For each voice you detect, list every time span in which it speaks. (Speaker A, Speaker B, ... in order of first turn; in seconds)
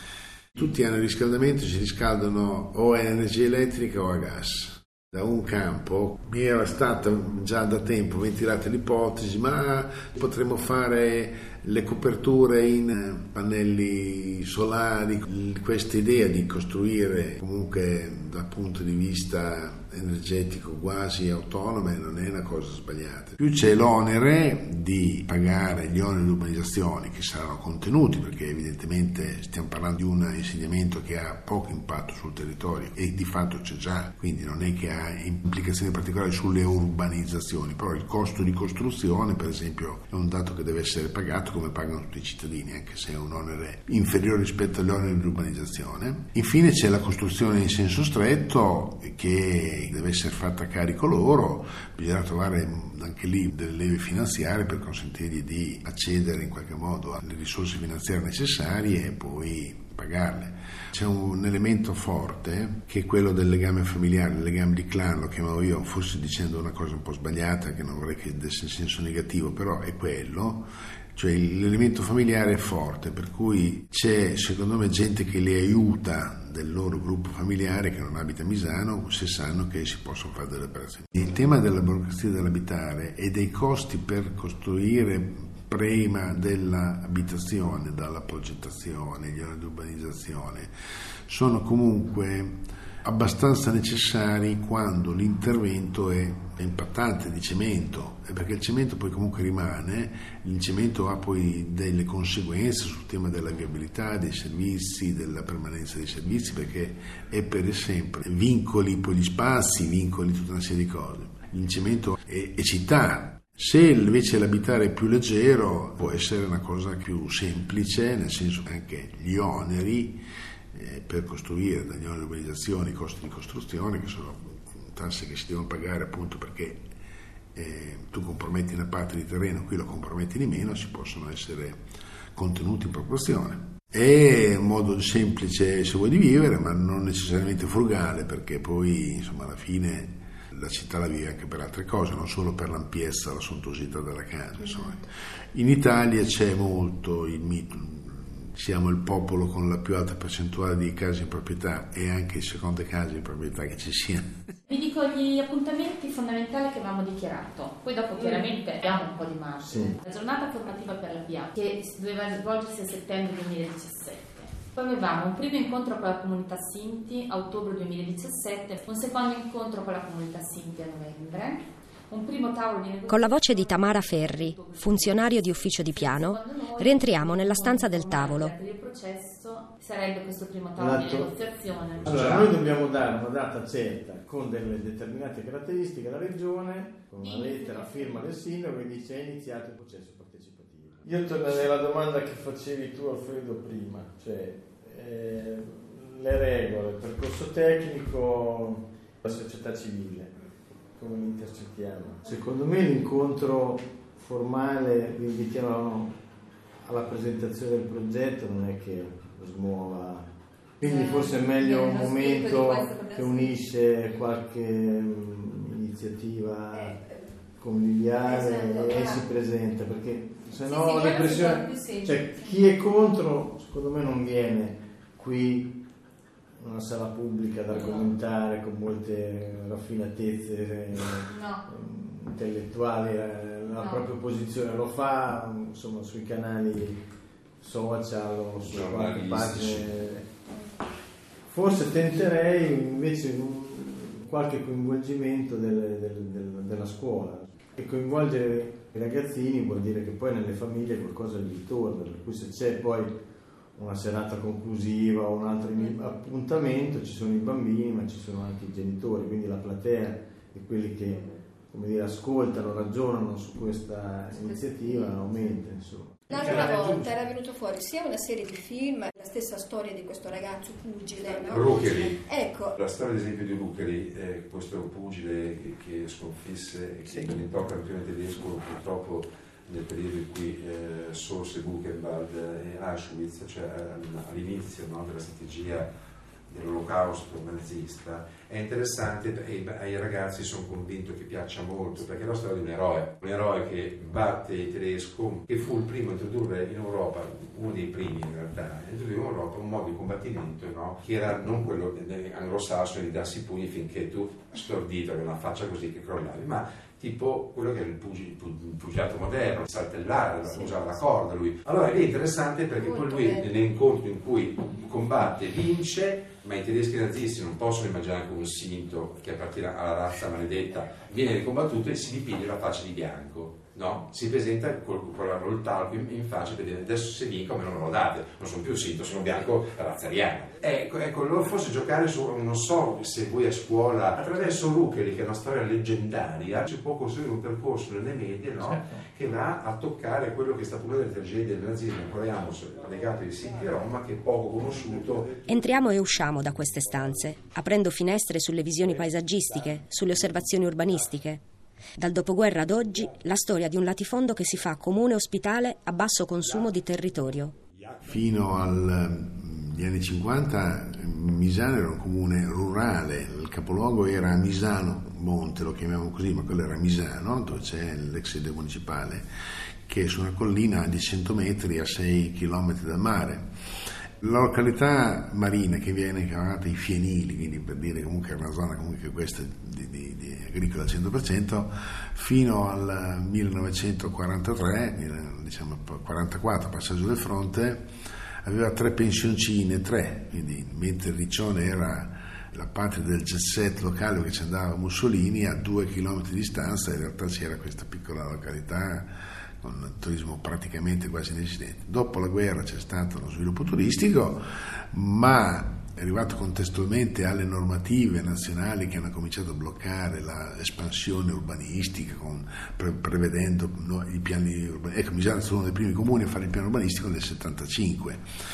Speaker A: 0.6-90.7, 91.3-120.2, 120.7-126.9, 127.5-131.8, 132.3-154.2, 358.0-369.3, 369.9-373.5, 374.2-387.9, 388.4-418.2
Speaker B: 154.7-182.2, 187.2-188.2, 231.3-231.6, 233.7-234.1
Speaker C: 159.6-160.0, 180.8-181.3, 182.0-200.3, 201.0-206.2, 206.8-210.3, 210.8-217.0, 217.6-225.8, 226.6-237.0, 237.6-240.3, 241.5-253.2, 253.8-266.5, 277.1-277.4
Speaker D: 173.1-178.5, 345.5-351.4, 352.0-357.6
Speaker E: 182.0-182.5, 238.6-239.9, 266.4-267.1, 271.2-285.9, 286.5-345.4
Speaker F: 218.4-219.0, 266.3-272.7, 312.8-313.5